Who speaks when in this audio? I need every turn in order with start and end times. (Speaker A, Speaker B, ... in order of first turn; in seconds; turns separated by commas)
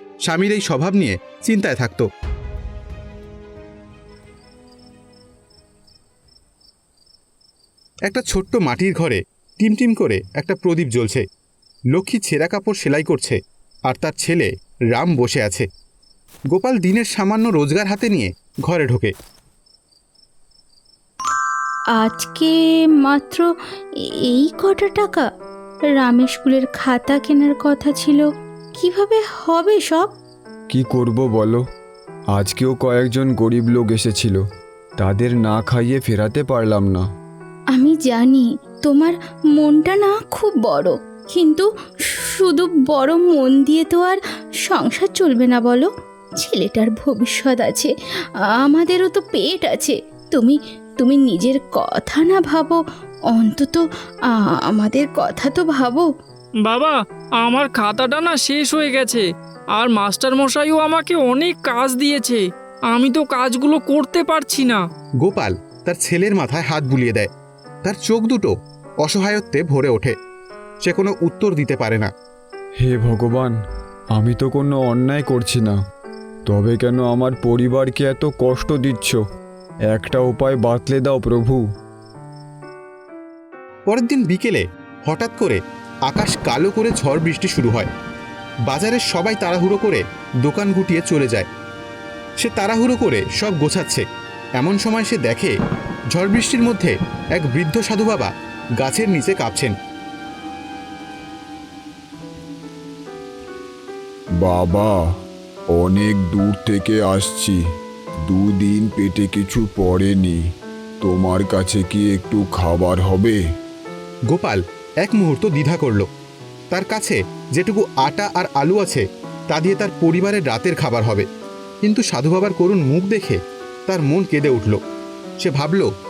Speaker A: 0.3-2.1, Speaker A: 8.1-11.2, Speaker A: 11.9-13.4, Speaker A: 13.9-15.7, Speaker A: 16.5-19.1, Speaker B: 22.0-23.5, Speaker B: 24.3-25.3, Speaker B: 26.0-28.3, Speaker B: 28.8-30.1, Speaker C: 30.7-31.6, Speaker C: 32.3-34.4, Speaker C: 35.0-37.0, Speaker B: 37.7-45.9, Speaker B: 46.4-47.9, Speaker B: 48.6-52.8, Speaker B: 53.3-56.1, Speaker D: 56.6-59.2, Speaker D: 59.8-62.4, Speaker D: 62.9-64.8, Speaker A: 65.2-67.3, Speaker A: 67.8-68.5, Speaker A: 69.0-70.1, Speaker A: 70.8-72.1, Speaker C: 72.8-73.5, Speaker C: 74.2-75.8, Speaker C: 76.5-79.2, Speaker C: 79.9-81.6, Speaker A: 83.9-87.9, Speaker A: 88.7-91.5, Speaker A: 92.4-94.0, Speaker A: 94.6-95.5, Speaker A: 96.1-99.8, Speaker E: 104.4-104.9, Speaker E: 105.8-107.6, Speaker E: 108.3-110.4, Speaker E: 111.0-113.3, Speaker A: 114.3-116.1, Speaker A: 116.7-121.3, Speaker A: 121.8-124.8, Speaker A: 125.4-125.9